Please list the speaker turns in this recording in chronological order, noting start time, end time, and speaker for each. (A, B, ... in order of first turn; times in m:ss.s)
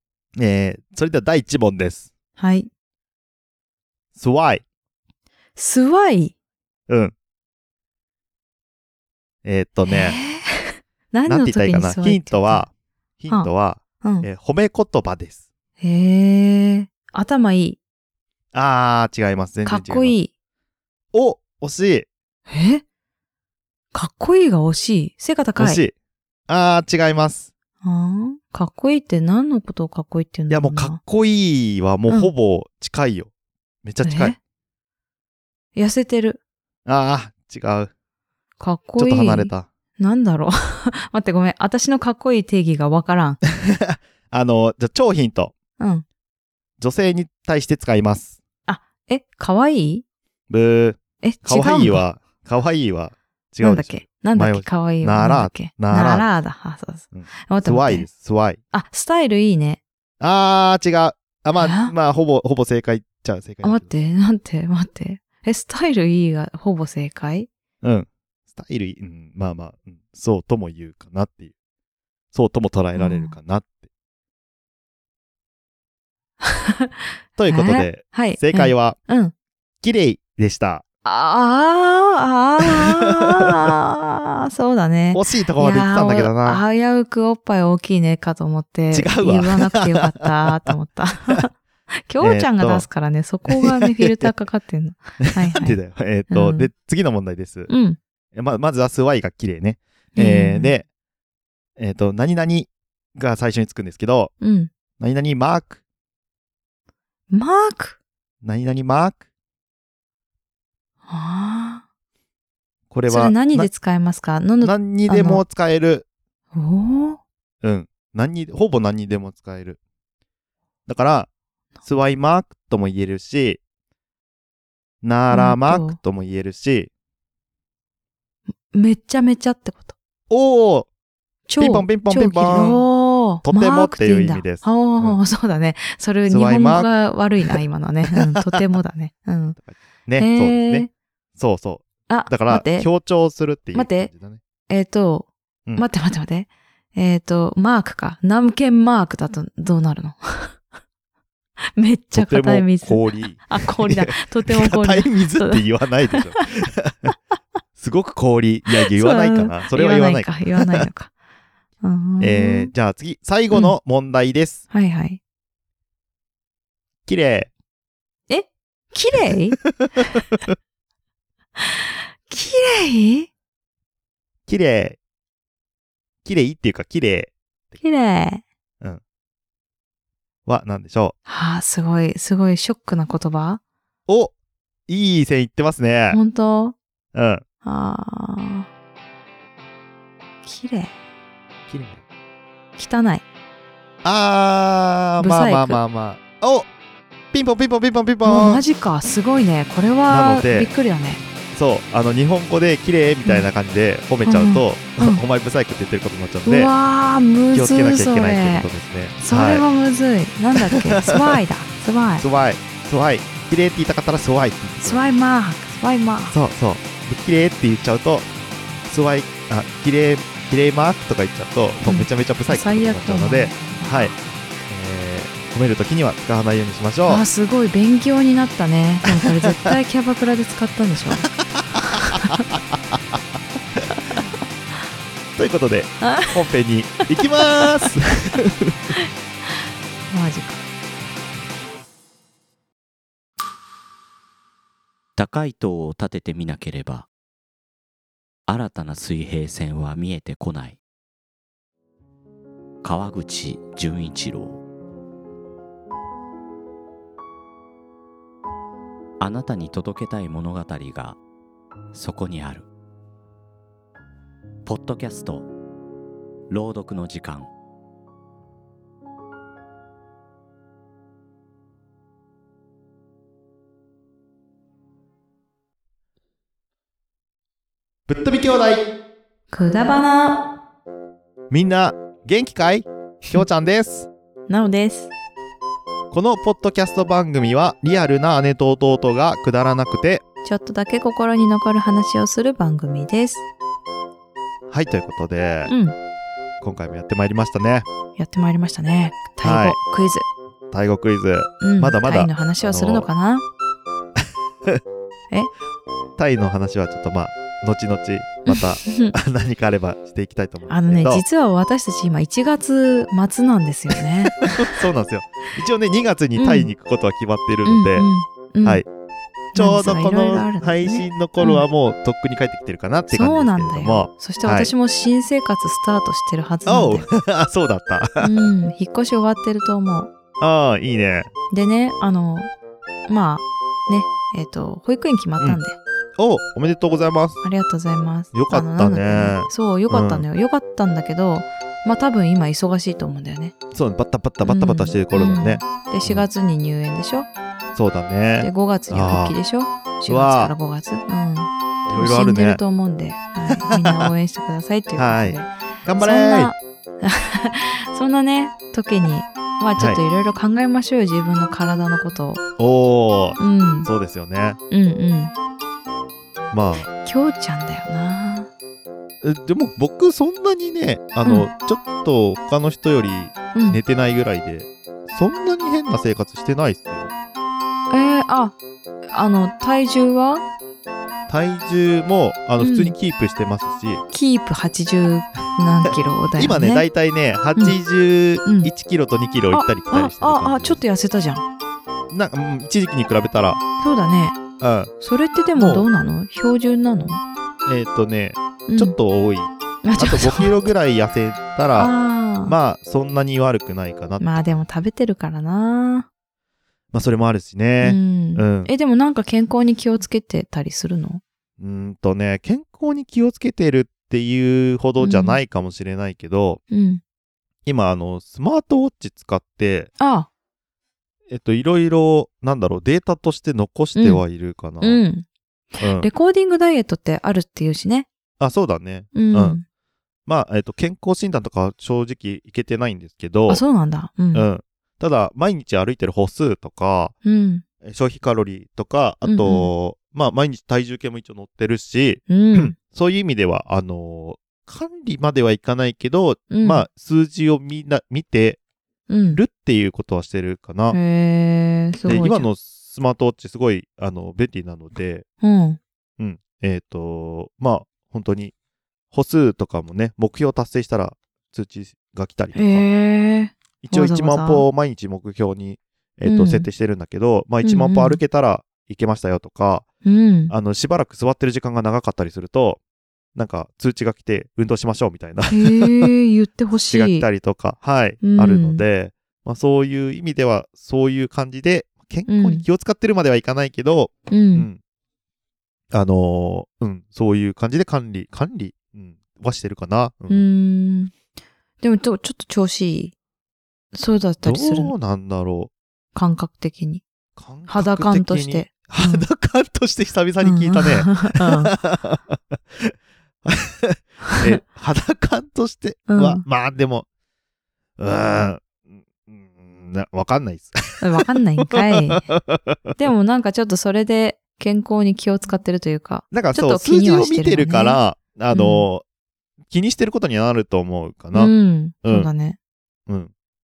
0:00.4-0:02.1 A
0:02.4-0:02.7 B
0:04.2-0:04.6 A
0:05.6-0:06.3 B
0:06.9-0:07.1 A
0:09.4-0:10.2 A
0:09.9-0:12.7 B
0:11.3-0:15.4 A
0:15.8-0:17.8 B
0:18.5-0:20.2 A
0:19.7-0:20.3 B
0:21.1-0:22.1 A
0:22.5-0:22.8 B
0:23.9-0:25.8 B
0:25.6-0:25.9 A
0:26.5-0:27.5 A
0:27.8-0:31.0 B
0:30.5-0:33.3 A
0:33.8-0:34.4 A
0:34.0-0:34.4 B
0:35.8-0:36.4 B
0:36.9-0:37.9 A
0:38.6-0:43.4 B
0:39.0-0:39.7 A
0:43.7-0:45.5 A
0:45.8-0:46.0 B
0:46.8-0:48.4 A
0:48.7-0:50.0 B
0:50.5-0:56.3 A
0:51.2-0:52.0 B
0:53.6-0:58.1 B
0:57.1-0:58.6 A
0:58.7-0:59.8 B
1:00.2-1:03.8 A
1:01.6-1:01.9 B
1:03.6-1:07.5 B
1:07.8-1:11.5 A
1:12.3-1:13.8 A
1:13.0-1:13.4 B
1:16.4-1:19.3 B
1:17.4-1:19.0 A
1:19.8-1:20.8 A
1:21.0-1:31.5 B
1:22.6-1:23.7 A
1:25.1-1:26.6 A
1:28.9-1:30.7 A
1:32.1-1:36.7 B
1:32.2-1:32.9 A
1:33.5-1:34.3 A
1:35.2-1:37.7 A
1:37.7-1:38.0 B
1:38.3-1:40.9 A
1:40.2-1:40.7 B
1:41.8-1:44.3 A
1:44.4-1:44.7 B
1:45.0-1:45.8 A
1:47.3-1:48.0 B
1:48.4-1:49.2 A
1:51.1-1:51.8 B
1:52.9-1:53.7 A
1:53.1-1:55.4 B
1:54.6-1:56.1 A
1:56.5-1:57.2 B
1:57.6-1:59.8 A
2:00.9-2:01.3 A
2:01.8-2:03.6 A
2:05.0-2:06.9 A
2:05.3-2:06.0 B
2:08.7-2:10.0 B
2:10.3-2:10.9 A
2:11.5-2:19.6 B
2:11.6-2:12.9 A
2:13.4-2:15.2 A
2:16.3-2:16.9 A
2:18.1-2:18.6 A
2:19.6-2:24.4 A
2:20.2-2:20.9 B
2:22.1-2:22.9 B
2:23.7-2:24.1 B
2:24.7-2:30.6 B
2:31.8-2:36.4 B
2:32.2-2:37.1 A
2:37.8-2:40.9 A
2:38.8-2:41.1 B
2:41.8-2:42.7 B
2:42.2-2:44.6 A
2:44.7-2:45.2 B
2:47.1-2:47.5 A
2:48.3-2:49.6 B
2:49.8-2:50.4 A
2:51.6-2:53.3 B
2:54.5-2:55.0 A
2:56.2-2:57.3 A
2:57.8-2:58.4 B
3:00.5-3:01.2 A
3:01.3-3:03.6 B
3:04.1-3:04.3 A
3:04.9-3:06.2 A
3:06.1-3:06.8 B
3:07.1-3:07.4 A
3:07.6-3:08.7 B
3:10.4-3:10.9 B
3:11.7-3:12.0 A
3:12.8-3:13.2 B
3:14.0-3:16.7 A
3:15.2-3:15.8 B
3:17.3-3:18.6 A
3:18.2-3:21.2 B
3:20.1-3:20.7 A
3:21.5-3:26.7 A
3:24.2-3:25.2 B
3:26.4-3:28.7 B
3:27.5-3:29.6 A
3:29.2-3:32.2 B
3:30.6-3:31.3 A
3:32.2-3:35.0 A
3:34.8-3:36.4 B
3:36.3-3:38.3 A
3:38.9-3:44.1 A
3:41.9-3:44.2 B
3:44.6-3:47.2 A
3:47.1-3:51.3 B
3:51.8-3:52.4 B
3:55.4-3:58.9 A
3:56.0-3:56.4 B
4:00.1-4:00.6 B
4:05.2-4:07.1 C
4:08.5-4:10.8 C
4:12.8-4:14.6 C
4:19.2-4:21.2 C
4:21.9-4:22.7 C
4:24.6-4:25.5 C
4:26.5-4:27.5 C
4:38.1-4:38.8 A
4:39.5-4:40.5 B
4:41.5-4:44.1 A
4:44.5-4:45.1 B
4:46.1-4:50.2 A
4:50.4-4:53.4 B
4:54.7-4:55.7 A
4:55.7-4:56.0 B
4:56.6-4:57.9 A
4:58.2-5:00.2 B
4:59.4-4:59.8 A
5:00.7-5:03.1 A
5:01.6-5:03.4 B
5:06.2-5:11.2 A
5:08.5-5:09.1 B
5:10.7-5:14.8 B
5:14.5-5:18.1 A
5:16.4-5:16.7 B
5:17.6-5:18.8 B
5:19.5-5:21.6 B
5:19.6-5:24.7 A
5:23.1-5:27.1 B
5:26.7-5:28.3 A
5:28.2-5:30.1 B
5:30.4-5:31.3 A
5:31.5-5:32.5 B
5:33.1-5:35.8 B
5:36.2-5:37.4 A
5:37.4-5:43.5 B
5:38.3-5:40.2 A
5:43.7-5:46.3 A
5:44.4-5:47.3 B
5:47.8-5:49.4 A
5:48.4-6:02.4 B
5:50.1-5:50.5 A
5:51.9-5:52.6 A
5:53.5-5:54.1 A
5:55.0-5:56.5 A
6:02.6-6:04.6 A
6:03.4-6:03.9 B
6:04.7-6:05.3 B
6:06.5-6:06.9 A
6:06.8-6:08.5 B
6:09.2-6:17.1 A
6:13.5-6:13.8 B
6:17.9-6:18.6 B
6:19.1-6:20.4 B
6:21.3-6:24.0 A
6:22.6-6:23.0 B
6:24.1-6:26.9 B
6:26.4-6:30.8 A
6:28.4-6:28.7 B
6:29.5-6:31.4 B
6:32.1-6:33.6 A
6:33.8-6:34.4 B
6:34.6-6:34.9 A
6:35.0-6:37.2 B
6:35.6-6:35.9 A
6:37.7-6:41.9 A
6:38.7-6:39.0 B
6:39.8-6:40.5 B
6:41.8-6:42.6 B
6:42.4-6:44.3 A
6:44.2-6:46.1 B
6:46.9-6:48.7 A
6:47.8-6:51.2 B
6:51.6-6:56.6 A
6:55.0-6:55.4 B
6:56.7-6:57.0 B
6:57.6-6:59.9 A
7:00.0-7:00.3 B
7:01.3-7:05.0 A
7:04.0-7:04.2 B
7:04.8-7:08.1 B
7:05.8-7:06.1 A
7:08.4-7:09.6 A
7:09.1-7:09.6 B
7:10.3-7:13.6 A
7:13.5-7:14.5 B
7:14.3-7:17.1 A
7:17.2-7:17.6 B
7:17.8-7:28.6 A
7:19.2-7:19.7 B
7:22.3-7:22.8 B
7:26.5-7:26.9 B
7:29.1-7:29.4 B
7:29.3-7:31.0 A
7:30.9-7:32.5 B
7:32.1-7:35.2 A
7:35.4-7:35.8 B
7:36.2-7:38.5 A
7:39.1-7:42.8 A
7:42.6-7:44.7 B
7:43.8-7:49.9 A
7:46.3-7:46.7 B
7:47.6-7:48.2 B
7:50.0-7:50.5 B
7:50.5-7:52.8 A
7:53.4-7:56.1 A
7:55.5-7:57.3 B
7:56.9-8:04.8 A
7:58.2-7:58.8 B
8:02.3-8:02.6 B
8:04.3-8:04.7 B
8:05.9-8:10.5 A
8:10.3-8:11.1 B
8:11.8-8:13.1 B
8:13.9-8:14.9 B
8:14.4-8:15.7 A
8:16.2-8:17.0 B
8:17.4-8:22.9 A
8:17.7-8:19.3 B
8:20.4-8:21.7 B
8:23.4-8:27.1 A
8:26.1-8:26.4 B
8:28.0-8:28.7 A
8:29.2-8:33.0 A
8:31.0-8:32.3 B
8:33.0-8:38.0 B
8:36.3-8:39.0 A
8:38.5-8:38.9 B
8:39.7-8:41.5 A
8:41.3-8:42.6 B
8:42.0-8:42.3 A